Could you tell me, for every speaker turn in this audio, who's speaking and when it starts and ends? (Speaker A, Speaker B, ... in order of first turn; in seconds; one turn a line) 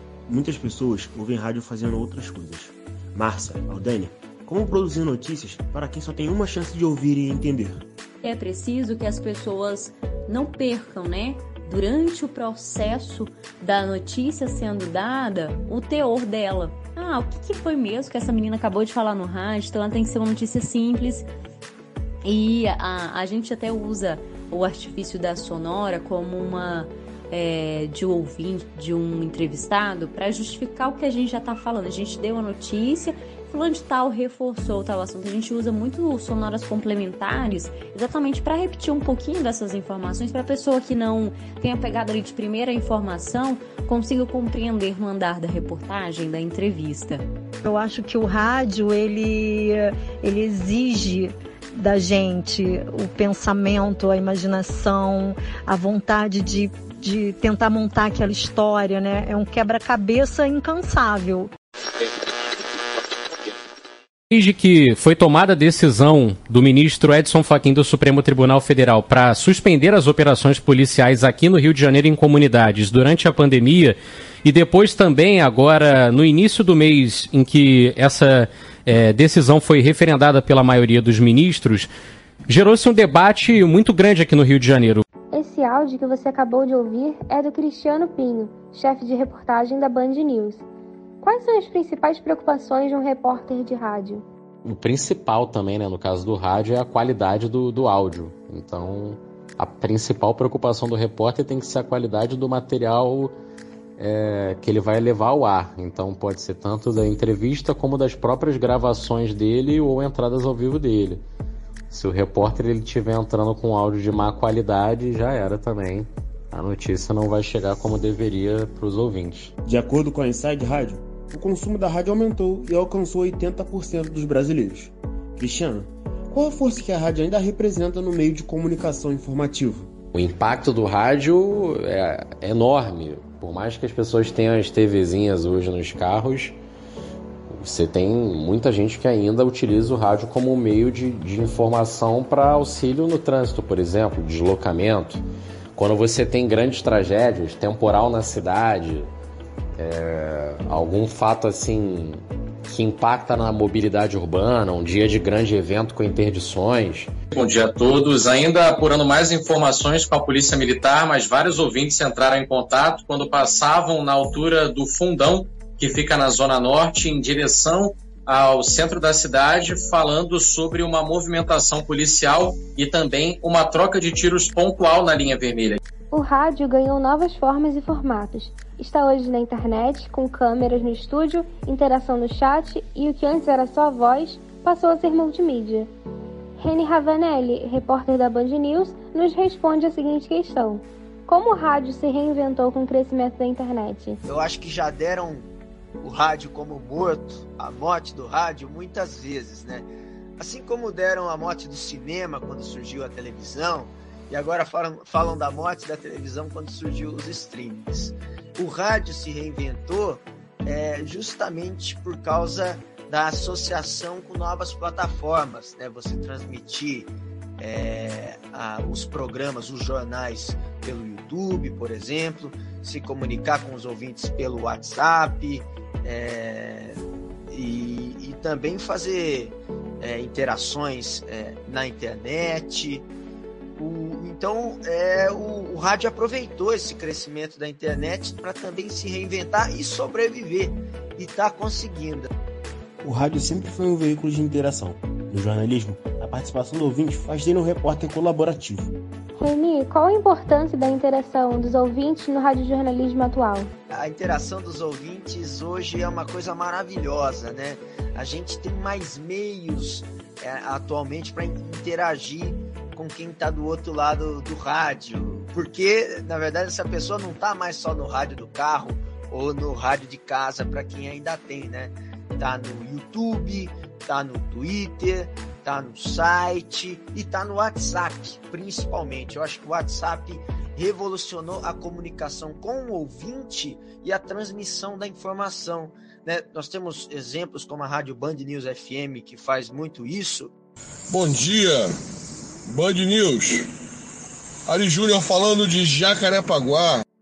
Speaker A: 0.3-7.8
Speaker B: 8.2-21.3
Speaker B: 22.2-47.2
Speaker C: 47.6-61.5
Speaker D: 64.3-81.9
Speaker D: 82.5-85.0
Speaker E: 85.3-90.6
Speaker E: 91.2-94.2
Speaker F: 94.6-103.3
Speaker F: 104.0-111.2
Speaker F: 111.9-119.5
Speaker A: 119.6-129.9
Speaker F: 130.1-136.6
Speaker F: 137.5-145.2
Speaker F: 145.8-149.1
Speaker F: 149.8-157.1
Speaker G: 157.3-175.8
Speaker E: 176.1-185.9
Speaker E: 186.6-194.2
Speaker H: 194.2-233.1
Speaker H: 233.8-242.3
Speaker A: 243.0-248.9
Speaker E: 249.3-253.7
Speaker H: 253.9-290.5
Speaker I: 291.1-291.9
Speaker I: 292.7-293.6
Speaker I: 294.7-297.0